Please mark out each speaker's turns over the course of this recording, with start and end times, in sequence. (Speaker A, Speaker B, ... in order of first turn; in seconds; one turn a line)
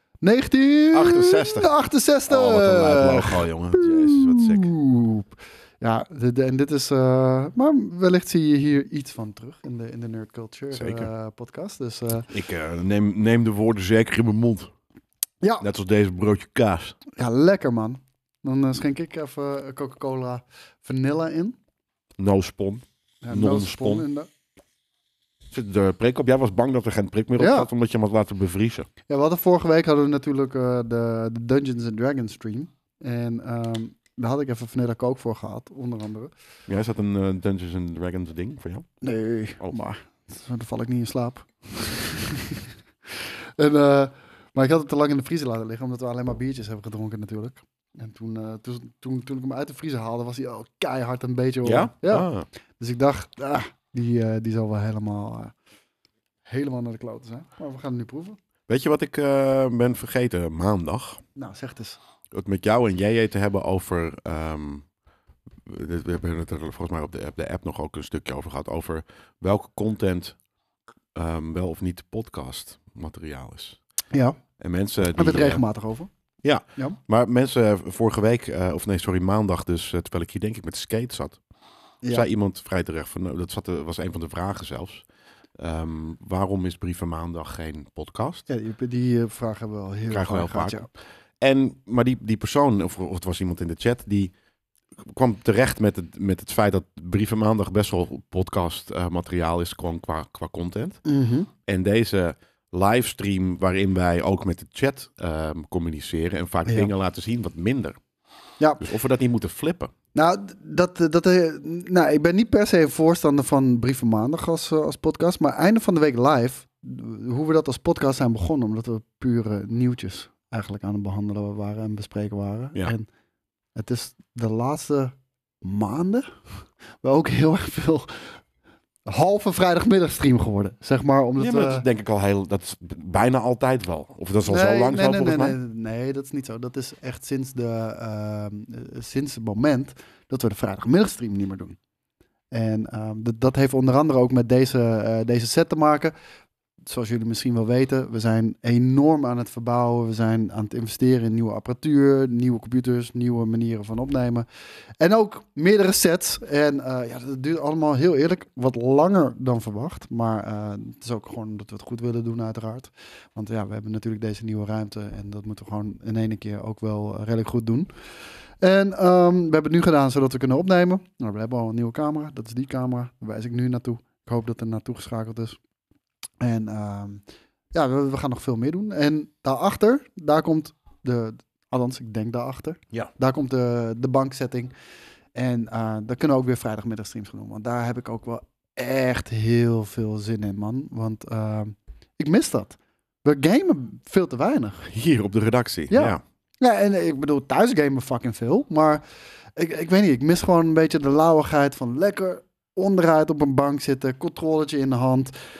Speaker A: 0.2-12.3
Speaker B: 0.9-1.7
Speaker B: 2.3-4.7
Speaker B: 10.7-11.1
Speaker B: 12.3-14.7
Speaker B: 15.6-17.0
Speaker A: 17.1-21.6
Speaker B: 22.2-24.0
Speaker A: 23.2-24.3
Speaker B: 25.5-28.9
Speaker A: 27.4-27.7
Speaker A: 29.1-36.3
Speaker B: 36.7-38.9
Speaker A: 39.0-52.3
Speaker B: 51.6-52.5
Speaker A: 52.8-55.5
Speaker A: 56.5-58.4
Speaker B: 58.7-61.2
Speaker A: 61.4-62.0
Speaker B: 62.3-64.8
Speaker B: 65.7-70.3
Speaker B: 71.1-73.8
Speaker A: 74.1-74.4
Speaker B: 74.6-75.6
Speaker A: 75.2-76.1
Speaker B: 76.4-81.4
Speaker B: 82.1-85.0
Speaker B: 85.6-88.5
Speaker A: 88.5-90.9
Speaker B: 90.1-94.3
Speaker B: 95.0-101.0
Speaker A: 101.0-101.5
Speaker B: 101.6-108.0
Speaker B: 108.8-109.9
Speaker A: 110.1-123.1
Speaker A: 123.7-126.3
Speaker A: 127.0-128.3
Speaker A: 129.1-131.8
Speaker B: 131.4-135.6
Speaker A: 134.4-141.8
Speaker A: 142.5-146.1
Speaker A: 146.8-154.4
Speaker A: 155.0-167.9
Speaker A: 168.6-175.6
Speaker A: 176.4-177.2
Speaker A: 177.7-184.7
Speaker A: 185.3-194.9
Speaker B: 194.9-196.2
Speaker A: 195.9-199.0
Speaker A: 199.6-205.3